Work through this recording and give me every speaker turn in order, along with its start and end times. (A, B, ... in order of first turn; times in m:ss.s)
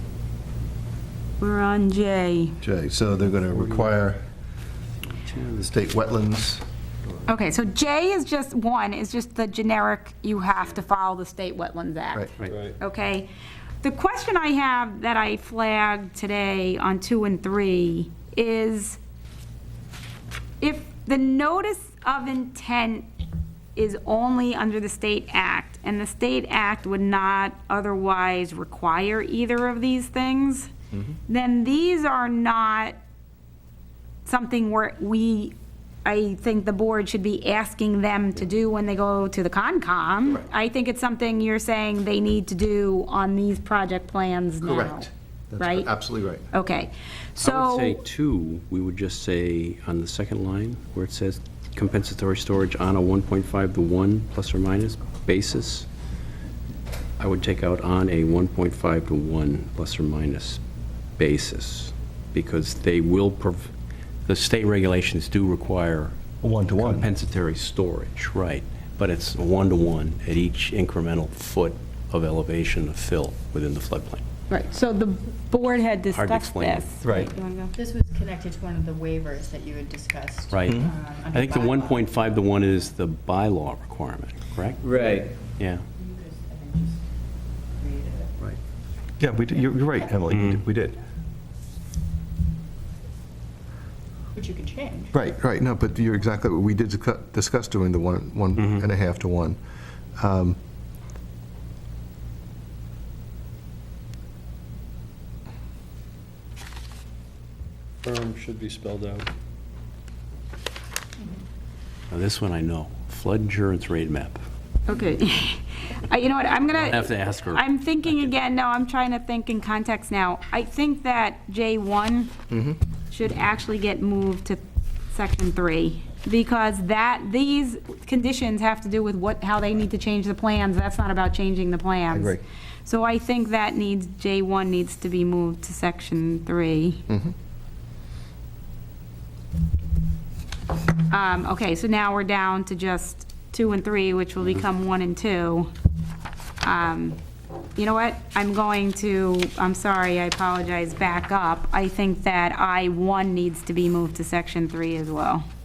0:01.4-0:02.6 A
0:02.6-0:04.2 B
0:03.2-0:03.9 C
0:05.0-0:05.7 C
0:05.6-0:06.6 B
0:07.3-0:13.3 A
0:12.4-0:12.8 D
0:13.8-0:19.0 A
0:20.6-0:23.1 A
0:23.8-0:30.7 A
0:31.3-0:33.0 A
0:34.3-0:45.1 A
0:44.6-0:46.5 B
0:45.6-0:45.9 A
0:46.5-0:48.0 A
0:47.4-0:55.9 C
0:57.2-1:00.6 C
1:01.2-1:03.7 C
1:04.3-1:06.2 C
1:06.4-1:07.1 B
1:06.8-1:14.2 C
1:14.5-1:17.7 A
1:16.1-1:17.2 C
1:17.0-1:17.3 B
1:17.7-1:22.2 E
1:20.5-1:25.0 C
1:20.7-1:20.9 B
1:24.8-1:25.3 D
1:25.6-1:25.8 C
1:26.0-1:27.0 E
1:27.8-1:28.3 E
1:29.2-1:31.0 B
1:30.3-1:30.6 C
1:34.3-1:35.1 E
1:35.1-1:39.6 B
1:38.6-1:38.8 C
1:40.2-1:40.6 B
1:48.0-1:49.3 D
1:52.1-1:54.4 C
1:54.9-2:02.4 A
1:56.7-1:57.6 C
2:02.5-2:02.8 B
2:03.1-2:17.1 A
2:12.1-2:12.4 B
2:21.1-2:25.7 A
2:26.6-2:27.2 A
2:27.8-2:35.4 A